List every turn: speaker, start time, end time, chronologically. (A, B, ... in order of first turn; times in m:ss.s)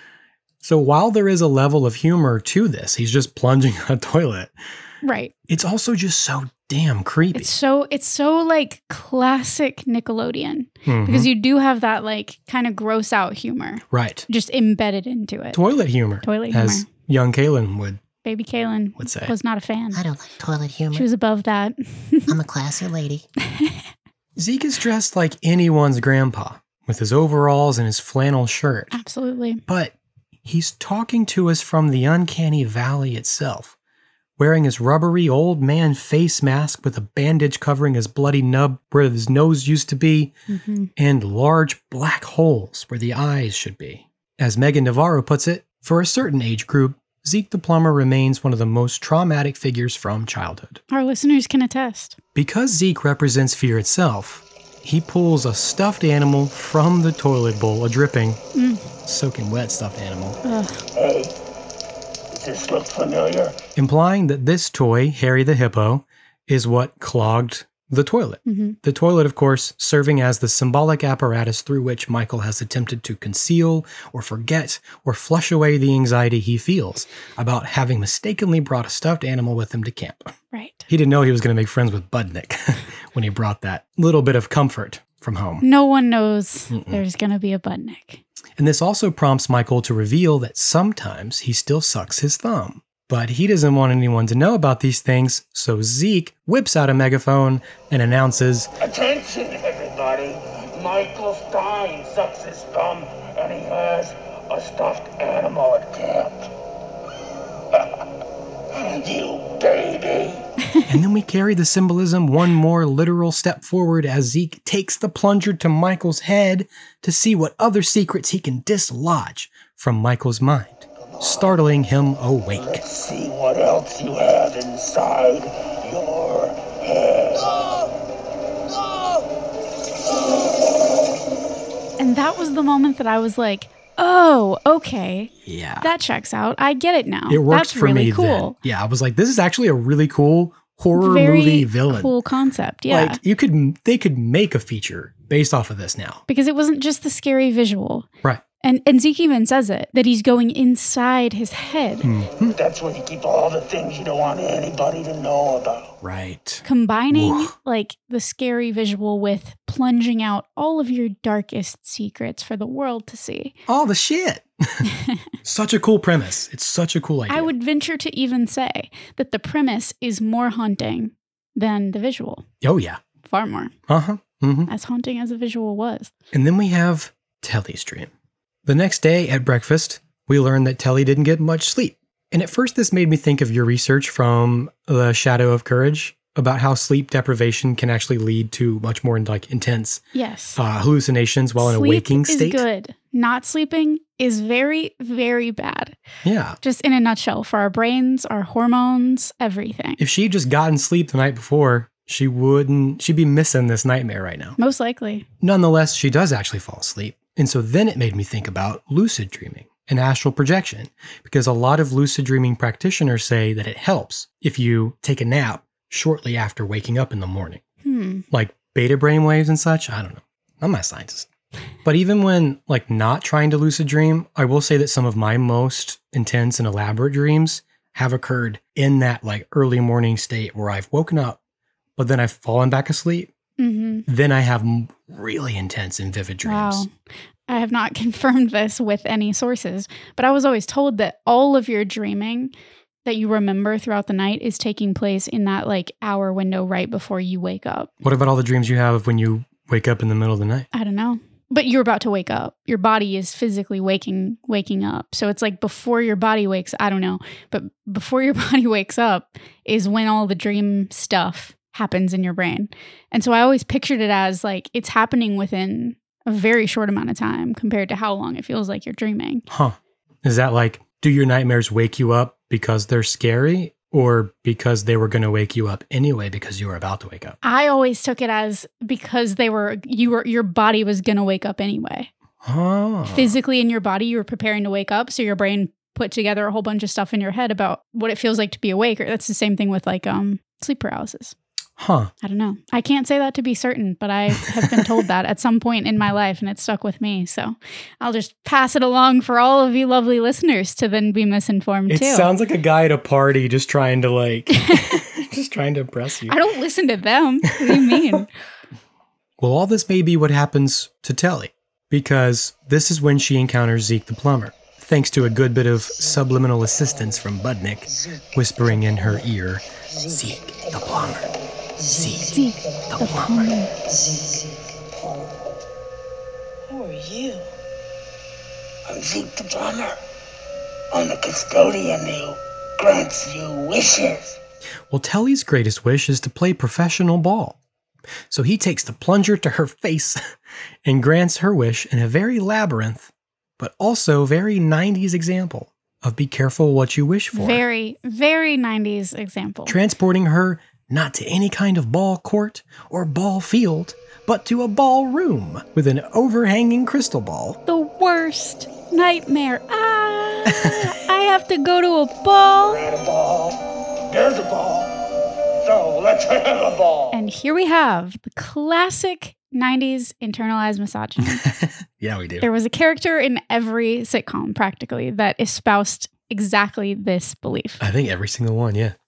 0:00.6-0:04.5 A
0:05.0-0:05.3 B
0:05.5-0:07.5 A
0:07.3-0:15.6 B
0:10.8-0:11.3 A
0:13.9-0:14.3 A
0:15.5-0:18.0 A
0:16.2-0:16.8 B
0:18.2-0:20.0 B
0:19.0-0:19.3 A
0:19.9-0:21.1 C
0:20.9-0:22.3 B
0:22.3-0:23.2 C
0:23.5-0:23.8 B
0:24.4-0:29.0 A
0:28.9-0:29.6 B
0:29.7-0:33.7 A
0:34.4-0:40.3 A
0:40.5-0:40.9 B
0:41.0-0:50.8 A
0:50.9-0:52.2 B
0:52.4-0:58.4 A
0:58.5-0:58.8 B
0:59.0-1:00.4 A
1:00.4-1:00.8 B
1:00.9-1:01.3 D
1:02.3-1:03.6 D
1:03.7-1:20.3 A
1:08.4-1:08.8 B
1:20.5-1:20.9 B
1:20.9-1:25.6 A
1:25.6-1:28.2 B
1:26.7-1:27.0 A
1:28.6-1:38.7 A
1:38.8-1:46.5 D
1:47.7-1:48.0 D
1:48.7-1:50.4 D
1:50.8-2:02.8 A
2:01.1-2:01.5 D
2:02.5-2:07.9 D
2:08.7-2:09.2 D
2:12.0-2:18.6 B
2:15.4-2:15.9 A
2:17.3-2:22.1 A
2:20.9-2:23.2 B
2:22.9-2:26.2 A
2:26.3-2:28.1 B
2:28.6-2:32.1 B
2:32.0-2:32.6 A
2:32.5-2:35.9 D
2:36.0-2:37.5 A
2:36.6-2:43.5 B
2:43.7-2:44.9 A
2:44.8-2:45.2 B
2:45.4-2:47.5 A
2:47.3-2:52.4 B
2:52.6-2:53.0 A
2:53.2-2:53.7 B
2:53.9-2:54.7 A
2:54.7-2:56.1 B
2:56.3-2:58.1 A
2:58.6-3:10.0 A
3:10.1-3:10.6 B
3:10.6-3:12.6 A
3:11.6-3:16.0 B
3:16.2-3:16.6 A
3:16.6-3:20.0 B
3:20.0-3:24.6 A
3:24.6-3:25.2 B
3:25.4-3:37.6 A
3:37.8-3:38.2 B
3:38.3-3:41.3 A
3:41.8-3:51.4 A
3:52.0-3:53.3 A
3:53.6-3:54.0 B
3:54.1-3:56.8 A
3:56.4-3:56.9 B
3:57.5-4:02.5 B
4:03.0-4:07.9 B
4:08.0-4:10.7 A
4:10.7-4:29.4 B
4:29.5-4:37.4 A
4:37.4-4:42.1 B
4:42.4-4:43.3 A
4:43.1-4:51.3 B
4:51.8-4:52.1 A
4:52.2-5:02.3 B
4:54.6-4:55.0 A
5:01.9-5:06.4 A
5:04.5-5:05.0 B
5:06.3-5:08.3 B
5:07.6-5:08.2 A
5:09.4-5:23.5 A
5:22.3-5:23.7 B
5:23.9-5:24.5 D
5:26.7-5:27.4 D
5:28.9-5:30.0 D
5:30.9-5:34.4 D
5:34.9-5:37.6 A
5:38.3-5:40.2 A
5:40.8-5:47.6 A
5:47.3-5:49.8 B
5:49.6-5:57.6 A
5:57.7-6:02.8 B
6:00.5-6:00.9 A
6:02.6-6:05.0 D
6:05.6-6:07.2 D
6:07.1-6:11.5 B
6:11.2-6:12.5 A
6:12.4-6:17.8 B
6:17.8-6:19.0 A